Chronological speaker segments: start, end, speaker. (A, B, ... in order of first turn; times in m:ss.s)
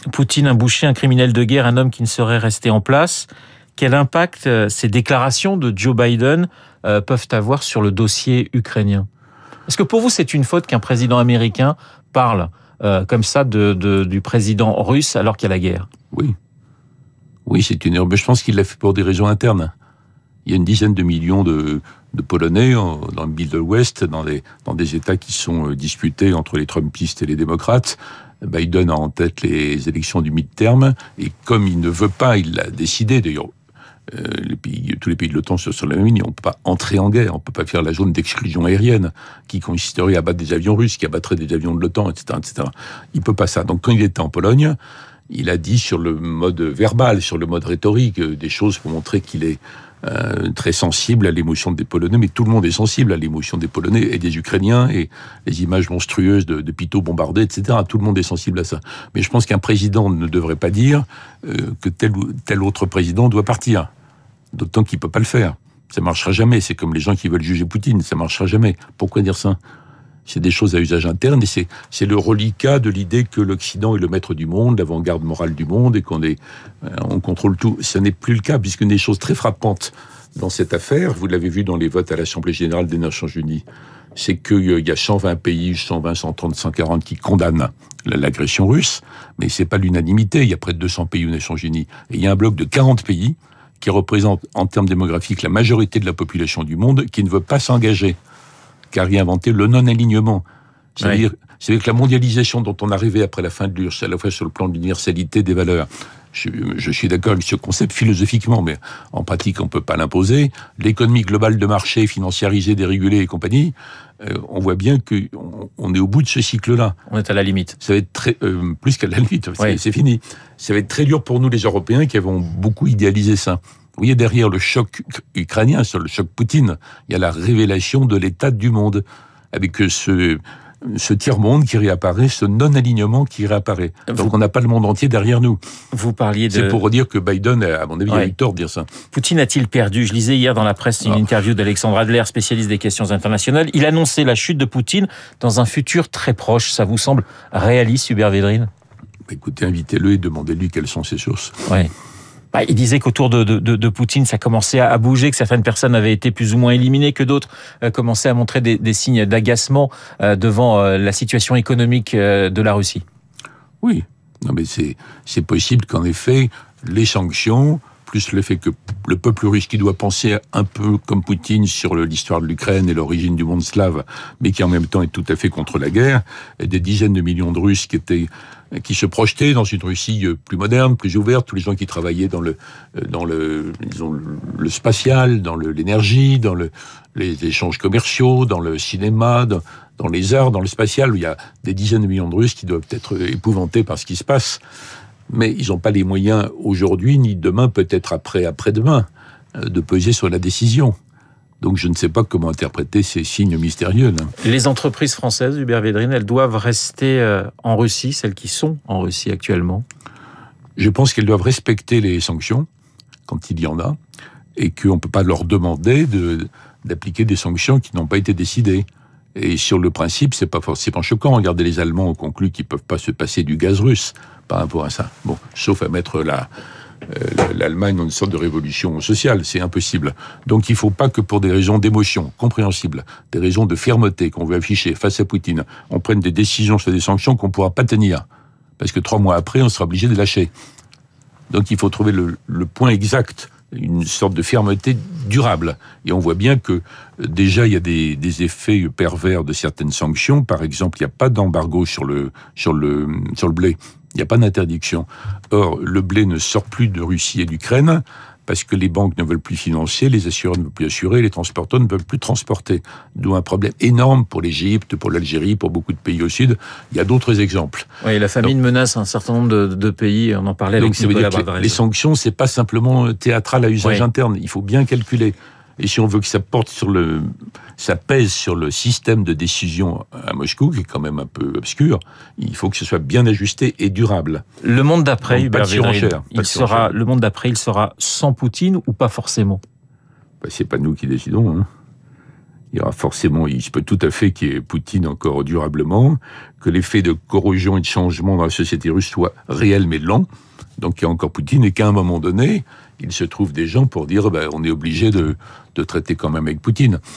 0:00.1-0:09.1 A
0:09.7-0:15.9 A
0:17.4-0:19.7 B
0:20.4-0:33.5 B
0:34.1-0:44.8 B
0:45.3-1:03.9 B
1:04.5-1:09.6 B
1:10.3-1:23.6 B
1:24.2-1:38.2 B
1:38.9-1:40.4 B
1:41.0-1:57.0 B
1:57.1-1:57.8 A
1:57.8-2:15.6 B
2:15.9-2:16.8 A
2:16.5-2:18.9 B
2:18.1-2:18.3 A
2:19.1-2:28.7 A
2:29.3-2:31.6 B
2:32.5-2:43.0 A
2:43.8-3:14.6 B
3:15.3-3:20.9 B
3:21.6-3:24.3 B
3:24.4-3:29.8 A
3:30.8-3:32.7 B
3:33.3-3:34.0 B
3:34.6-3:46.5 B
3:47.1-3:58.2 B
3:58.8-4:00.5 B
4:01.5-4:27.8 B
4:28.0-4:31.8 A
4:30.8-4:44.4 B
4:44.6-4:49.6 A
4:45.2-4:46.9 B
4:50.4-4:51.7 B
4:52.7-5:00.3 B
5:00.8-5:07.0 B